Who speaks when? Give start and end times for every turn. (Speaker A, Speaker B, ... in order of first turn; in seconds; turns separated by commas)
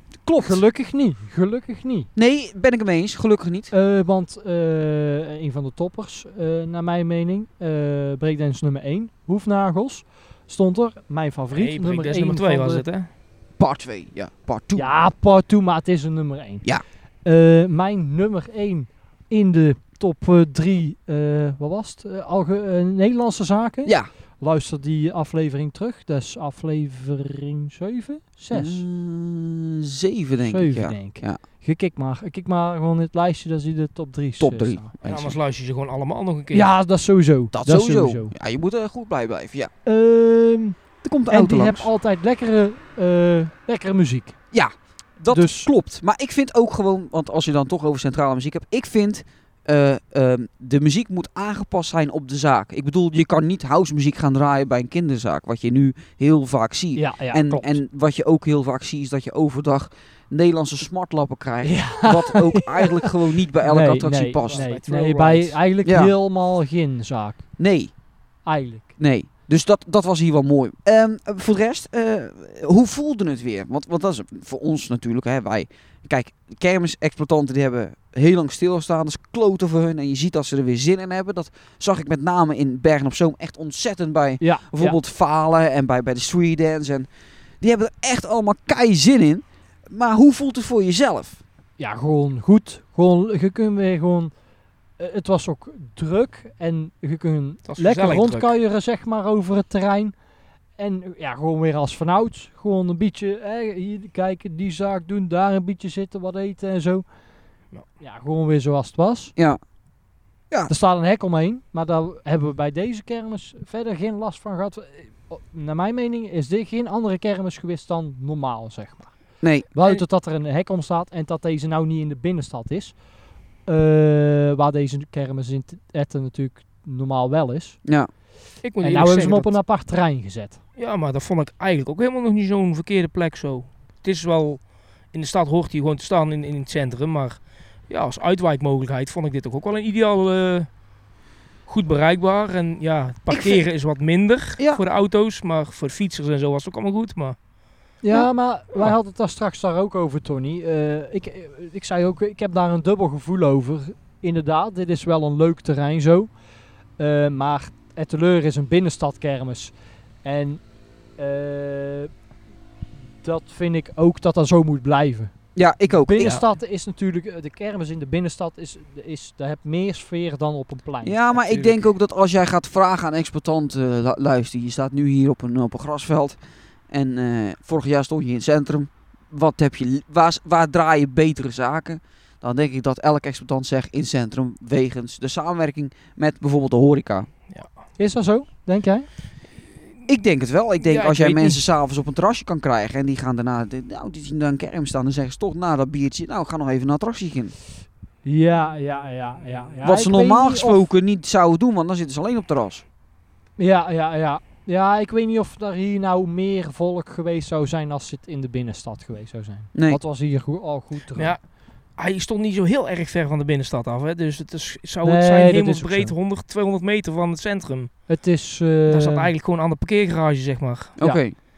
Speaker A: 0.3-0.6, Speaker B: 0.4-2.1, Speaker A: 2.1-3.7, Speaker B: 3.7-12.8, Speaker C: 11.5-13.1, Speaker A: 13.6-14.9, Speaker B: 14.7-16.7, Speaker B: 17.2-28.8, Speaker A: 28.5-31.4, Speaker B: 30.4-34.9, Speaker A: 34.4-35.4, Speaker C: 35.0-36.7, Speaker B: 36.5-38.3, Speaker A: 37.5-39.7, Speaker B: 39.8-44.4, Speaker A: 41.0-41.9, Speaker A: 44.5-64.7, Speaker B: 45.3-45.7, Speaker B: 57.0-57.8, Speaker B: 61.6-67.5, Speaker C: 64.4-65.6, Speaker A: 65.8-66.1, Speaker A: 67.6-68.0, Speaker B: 68.4-68.9, Speaker A: 69.0-87.1, Speaker B: 84.4-85.0, Speaker A: 87.6-91.4, Speaker B: 91.8-94.3, Speaker B: 95.0-100.2, Speaker C: 97.7-98.5, Speaker B: 100.8-107.2, Speaker B: 108.0-109.3, Speaker B: 110.7-123.0, Speaker A: 119.4-119.7, Speaker B: 123.6-127.8, Speaker A: 127.8-128.1, Speaker C: 128.6-129.6, Speaker B: 128.8-130.6, Speaker C: 130.8-140.8, Speaker C: 141.7-147.4, Speaker A: 143.3-143.9, Speaker A: 144.6-144.8, Speaker B: 148.0-156.4, Speaker B: 156.9-162.1, Speaker B: 163.2-171.8, Speaker A: 165.5-166.4, Speaker A: 171.0-176.4, Speaker A: 176.9-187.3, Speaker B: 188.0-189.1, Speaker A: 190.1-197.6, Speaker C: 190.8-191.6, Speaker B: 198.2-200.9, Speaker A: 199.8-202.8, Speaker B: 203.6-211.3, Speaker A: 209.7-210.0, Speaker C: 211.2-218.1, Speaker B: 215.0-216.1, Speaker B: 218.1-219.3, Speaker C: 218.9-221.0, Speaker A: 221.0-221.3